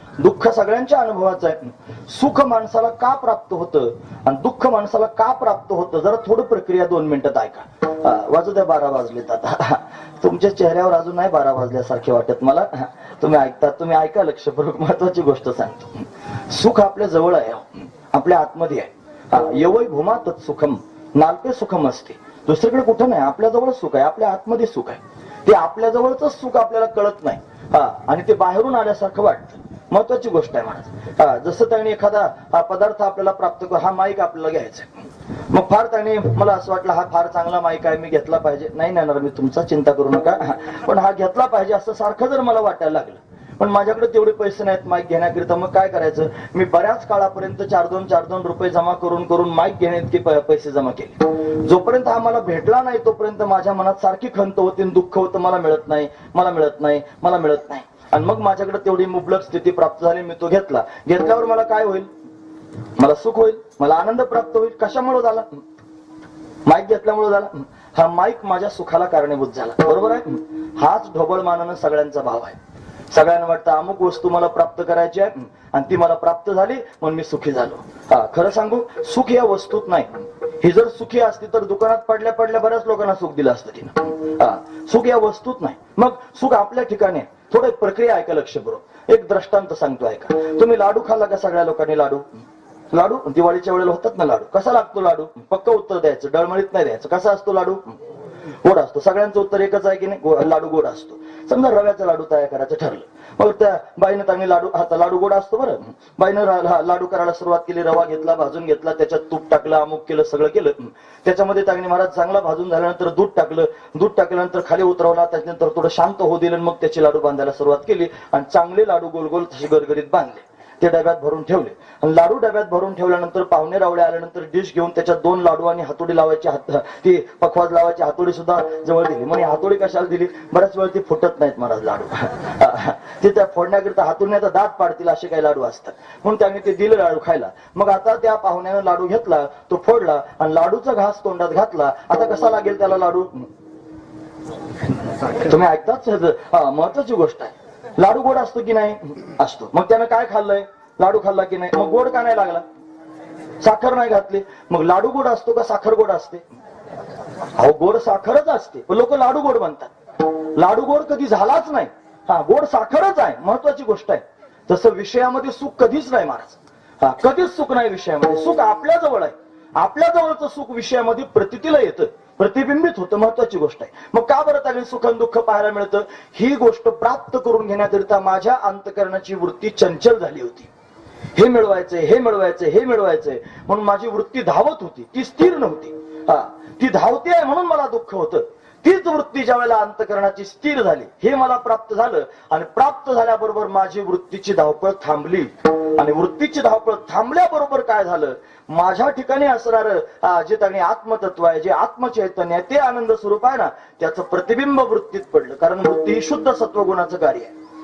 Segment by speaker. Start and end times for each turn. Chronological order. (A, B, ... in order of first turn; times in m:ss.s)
0:00.2-1:02.1 A
1:03.0-1:05.6 A
1:06.7-1:12.6 A
1:13.1-1:38.0 A
1:38.6-2:23.5 A
2:25.4-2:32.6 A
2:33.6-2:36.4 A
2:37.6-3:00.7 A
3:01.4-3:27.5 A